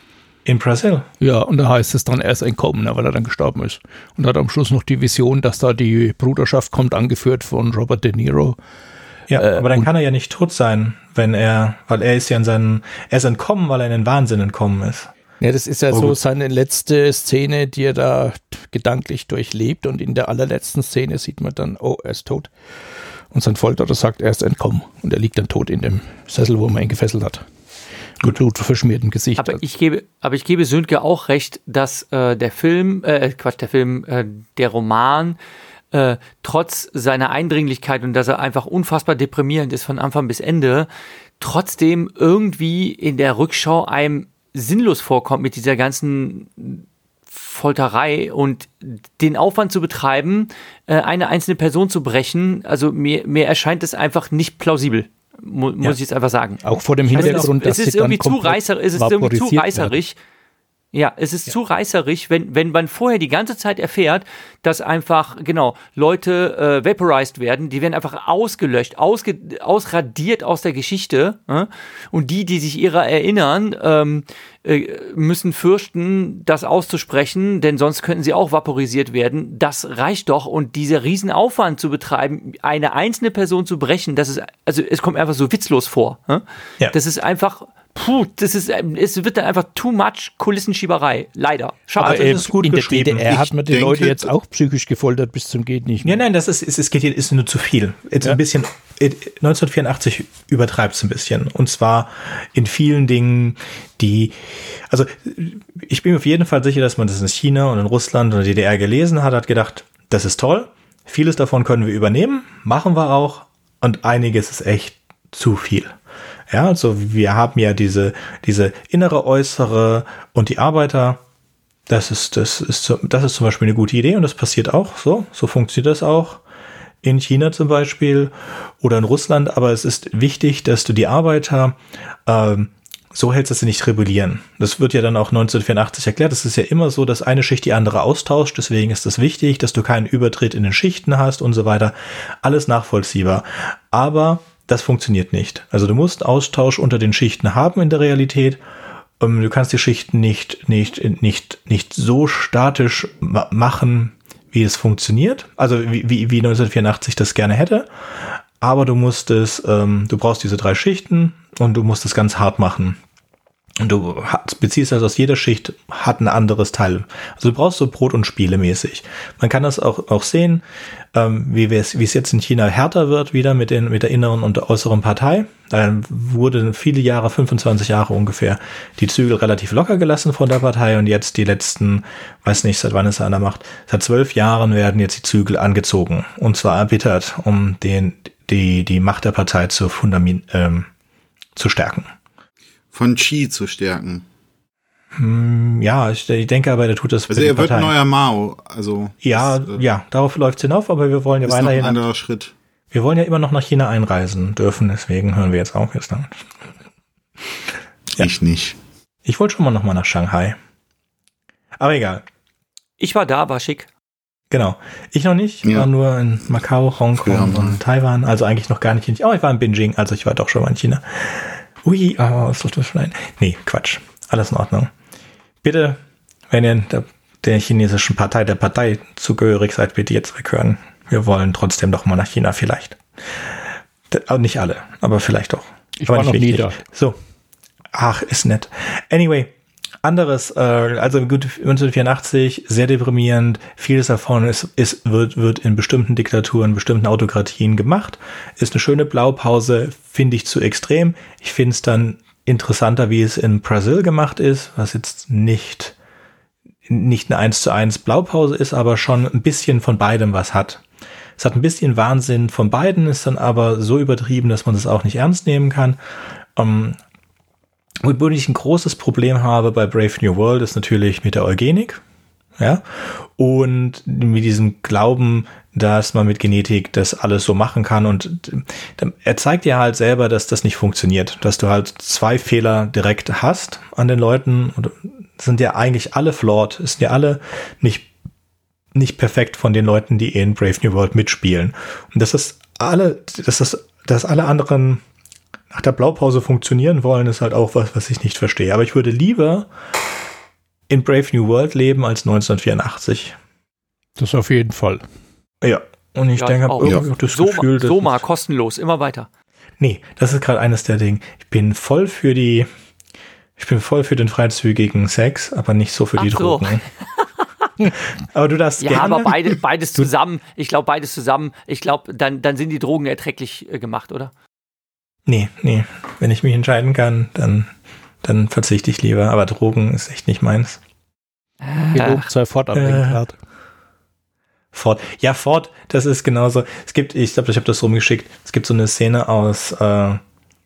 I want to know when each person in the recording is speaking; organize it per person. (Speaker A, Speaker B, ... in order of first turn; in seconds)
Speaker A: 0.5-1.1, 9.3-15.1, 15.9-16.2, 57.1-57.5, 92.0-93.3, 96.0-116.0, 116.5-121.2, 121.9-126.4, 127.0-148.6, 149.2-163.0, 163.8-190.9, 191.6-192.1, 195.2-197.9, 199.2-202.0, 202.9-206.5, 209.3-210.6, 211.8-212.2, 214.5-224.9, 225.6-233.6, 234.1-237.2, 237.9-239.5, 240.0-255.9, 256.9-260.8, 261.4-266.0, 266.6-267.0, 268.0-272.0, 272.6-288.1, 288.9-295.0, 295.7-299.7, 300.9-303.4, 305.6-308.2, 309.8-312.7, 313.6-316.8, 318.3-320.1, 325.3-327.7, 328.2-330.8, 332.7-333.2, 334.7-340.2
Speaker B: 1.2-8.6, 9.4-9.9, 15.4-22.5, 23.3-27.4, 28.2-29.6, 56.6-59.9, 92.0-96.2, 236.0-236.8, 304.2-305.0, 331.9-333.4
Speaker C: 29.4-35.4, 35.9-40.9, 41.4-60.2, 60.9-92.5, 213.0-213.9, 306.4-309.3, 316.2-316.8, 318.8-324.3, 331.6-332.3
Speaker D: 93.3-94.3, 192.9-194.3, 197.3-199.8, 201.5-202.5, 208.2-208.8, 217.2-217.8